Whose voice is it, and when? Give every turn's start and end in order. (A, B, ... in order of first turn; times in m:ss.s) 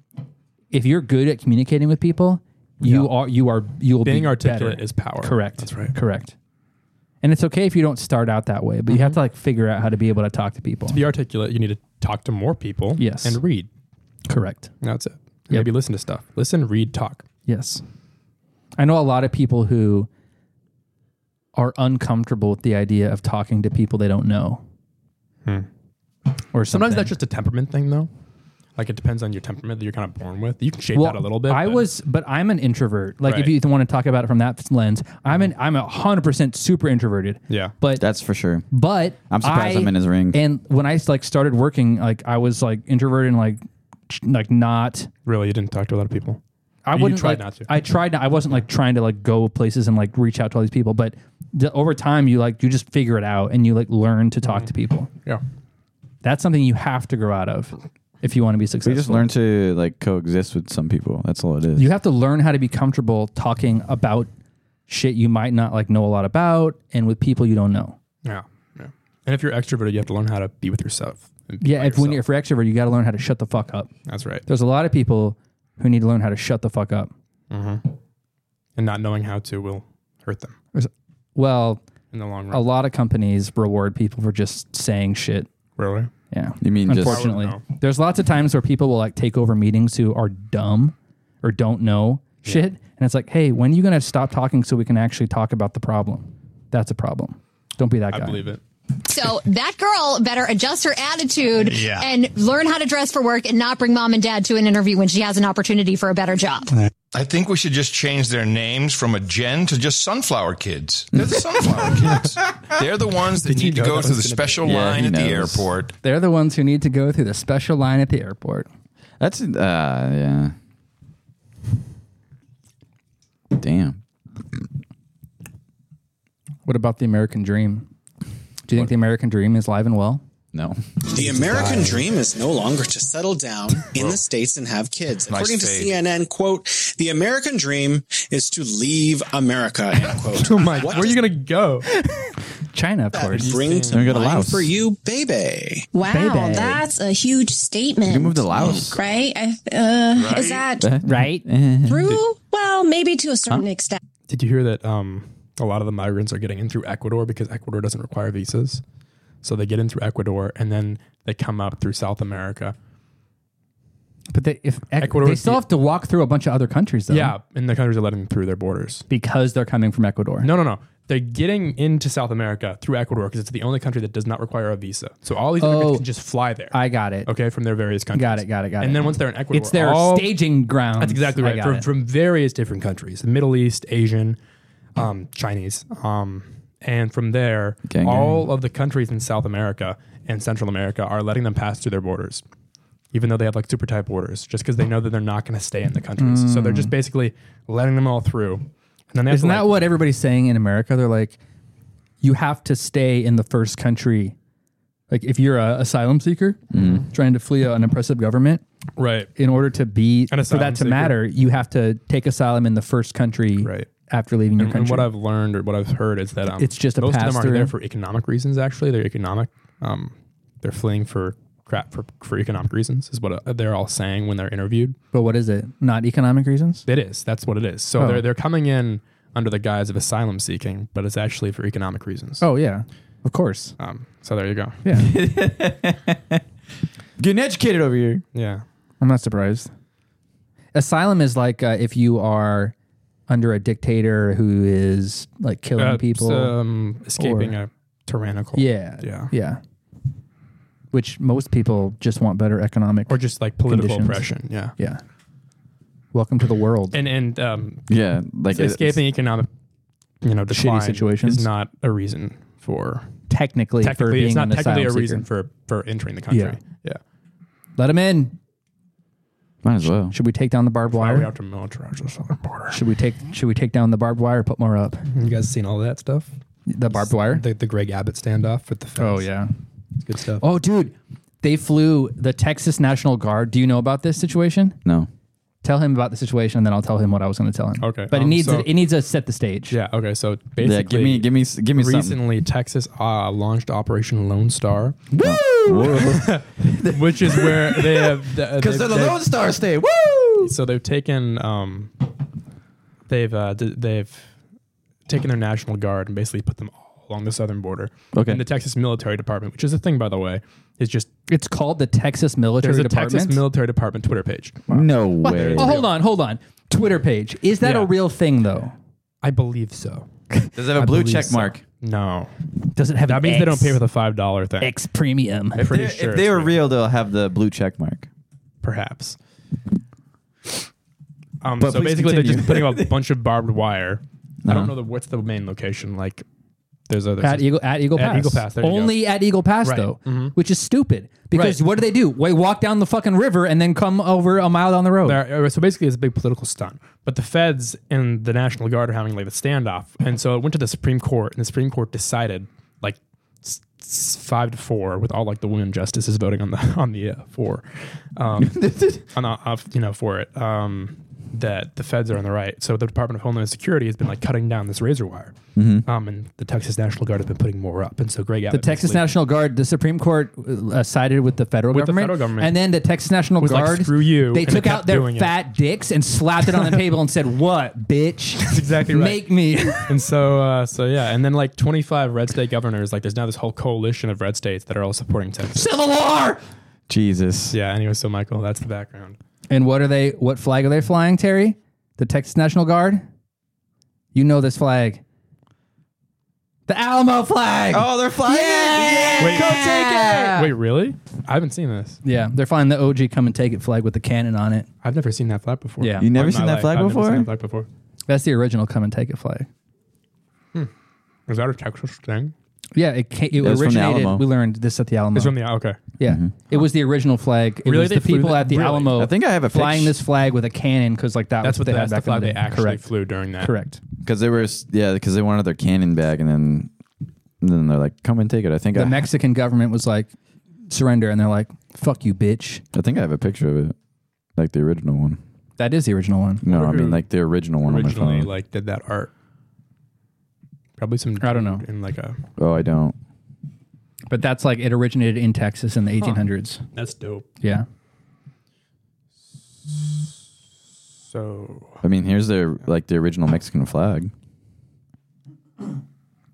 0:00.7-0:06.3 A
0:02.8-0:03.1 B
0:04.0-0:05.9 B
0:07.2-0:11.0 A
0:08.9-0:09.2 B
0:10.9-0:13.7 B
0:13.0-0:13.4 A
0:14.3-0:14.7 A
0:14.8-0:17.2 B
0:17.4-0:17.8 A
0:18.8-0:20.1 A
0:21.5-0:24.6 A
0:26.5-0:27.1 A
0:26.7-0:28.1 B
0:28.8-0:31.9 B
0:30.9-0:38.0 A
0:33.2-0:33.5 B
0:37.5-0:37.7 B
0:38.0-0:38.6 C
0:38.7-0:45.1 A
0:39.3-0:40.4 C
0:45.2-0:46.4 B
0:46.8-0:55.1 A
0:46.9-0:47.7 B
0:54.4-0:54.7 B
0:56.2-0:59.3 A
0:58.8-1:01.9 C
1:01.8-1:04.3 A
1:04.9-1:08.0 A
1:08.2-1:12.2 B
1:11.6-1:13.9 A
1:14.0-1:14.4 B
1:14.5-1:17.1 A
1:17.5-1:17.8 B
1:18.8-1:20.6 B
1:20.7-1:21.8 A
1:22.1-1:22.6 B
1:22.5-1:25.5 A
1:25.8-1:26.1 B
1:26.3-1:38.4 A
1:26.6-1:27.3 C
1:26.9-1:27.6 B
1:32.4-1:32.7 B
1:38.1-1:38.6 B
1:39.0-1:46.7 D
1:41.7-1:42.0 E
1:47.1-1:55.9 F
1:53.3-1:54.9 B
1:54.6-1:55.7 C
1:56.0-1:58.7 A
1:59.2-2:00.5 C
2:03.5-2:04.0 C
2:06.6-2:07.9 A
2:08.6-2:10.2 A
2:10.5-2:10.8 C
2:11.1-2:21.1 E
2:11.2-2:11.9 B
2:15.3-2:16.0 F
2:20.4-2:21.9 B
2:22.7-2:23.5 A
2:23.1-2:25.7 E
2:23.3-2:24.2 B
2:23.9-2:24.8 C
2:26.0-2:30.8 G
2:26.1-2:26.8 A
2:28.0-2:29.0 C
2:30.7-2:32.2 C
2:31.0-2:31.4 A
2:32.5-2:33.9 G
2:34.3-2:38.8 B
2:39.4-2:42.7 B
2:44.3-2:47.3 A
2:45.0-2:45.6 B
2:47.1-2:49.0 B
2:49.1-2:50.5 A
2:50.4-3:00.3 B
2:55.6-2:56.1 A
2:56.7-2:57.3 A
2:58.1-3:01.9 A
3:01.0-3:04.4 B
3:05.0-3:12.4 B
3:07.8-3:08.3 C
3:13.1-3:19.9 B
3:16.2-3:16.9 A
3:19.3-3:21.4 A
3:22.2-3:24.4 A
3:25.1-3:28.6 A
3:26.7-3:27.0 C
3:26.8-3:27.0 B
3:29.0-3:29.3 B
3:29.4-3:35.1 A
3:30.3-3:31.2 B
3:33.6-3:33.9 B
3:34.6-3:45.0 B
3:36.5-3:37.7 A
3:45.1-3:46.8 A
3:46.8-3:52.4 B
3:48.0-3:48.2 A
3:52.4-3:53.7 A
3:53.8-3:54.8 B
3:54.8-3:55.1 A
3:54.9-3:56.4 C
3:57.2-3:58.2 C
3:58.3-3:58.6 B
3:59.0-3:59.7 A
4:00.7-4:02.7 A
4:03.3-4:06.6 A
4:05.8-4:09.3 B
4:07.2-4:07.6 A
4:08.5-4:09.6 A
4:10.9-4:15.0 A
4:13.1-4:14.7 B
4:16.1-4:17.0 A
4:16.9-4:17.8 B
4:17.9-4:19.0 C
4:18.5-4:19.5 B
4:20.2-4:23.1 B
4:20.5-4:21.5 A
4:23.3-4:25.3 A
4:23.8-4:27.0 B
4:26.3-4:26.6 A
4:27.8-4:28.3 A
4:29.6-4:30.1 C
4:30.1-4:31.3 A
4:30.9-4:32.8 B
4:32.7-4:35.0 A
4:35.1-4:36.3 B
4:36.7-4:37.4 A
4:36.9-4:39.3 B
4:39.0-4:39.5 A
4:40.0-4:40.4 B
4:40.4-4:44.8 A
4:44.8-4:45.1 C
4:45.6-4:49.8 A
4:47.8-4:48.7 B
4:49.7-4:55.0 B
4:50.6-4:52.2 C
4:55.1-5:00.5 C
4:55.7-4:59.2 B
5:00.4-5:01.9 B
5:03.1-5:04.3 B
5:05.1-5:11.1 B
5:08.1-5:08.4 C
5:11.3-5:13.4 A
5:12.6-5:15.9 B
5:14.7-5:15.7 C
5:15.2-5:18.7 A
5:17.6-5:17.9 B
5:19.2-5:20.1 B
5:20.4-5:21.4 A
5:20.6-5:21.6 C
5:21.2-5:22.3 B
5:22.7-5:23.8 A
5:23.0-5:24.7 B
5:24.6-5:25.6 A
5:25.6-5:26.6 B
5:25.7-5:28.1 C
5:28.6-5:29.2 B
5:31.4-5:36.2 B
5:31.6-5:32.9 C
5:34.4-5:34.7 C
5:36.9-5:39.0 B
5:37.2-5:45.2 A
5:39.6-5:40.3 B
5:41.3-5:41.6 B
5:45.0-5:58.6 B
5:58.4-5:59.0 C
5:59.1-6:05.3 B
6:05.6-6:05.8 C
6:05.8-6:09.1 B
6:08.5-6:19.9 A
6:11.7-6:12.6 B
6:13.4-6:15.3 B
6:18.4-6:19.2 B
6:19.9-6:25.8 B
6:25.6-6:26.4 A
6:26.9-6:27.5 C
6:27.5-6:29.2 B
6:29.5-6:33.0 A
6:34.1-6:35.0 A
6:36.7-6:40.5 A
6:37.7-6:40.3 C
6:39.2-6:39.6 B
6:40.2-6:42.0 B
6:42.0-6:44.7 A
6:44.8-6:47.7 B
6:45.8-6:46.1 A
6:46.0-6:47.3 C
6:48.1-6:49.5 A
6:51.3-6:52.3 B
6:52.7-6:55.4 A
6:53.4-6:54.2 C
6:55.1-6:55.8 B
6:56.0-7:03.8 A
6:56.0-6:56.3 C
6:57.6-6:59.0 B
6:58.9-6:59.9 C
7:01.4-7:03.5 B
7:04.0-7:06.7 C
7:07.4-7:09.0 C
7:08.7-7:10.1 A
7:10.7-7:12.6 A
7:12.7-7:13.7 C
7:14.4-7:15.2 C
7:15.6-7:16.4 A
7:16.4-7:18.3 C
7:16.5-7:17.0 B
7:17.6-7:19.1 B
7:20.8-7:22.2 B
7:21.2-7:21.6 A
7:22.4-7:23.0 C
7:24.1-7:26.6 A
7:26.0-7:27.2 B
7:31.0-7:31.8 B
7:31.8-7:34.1 C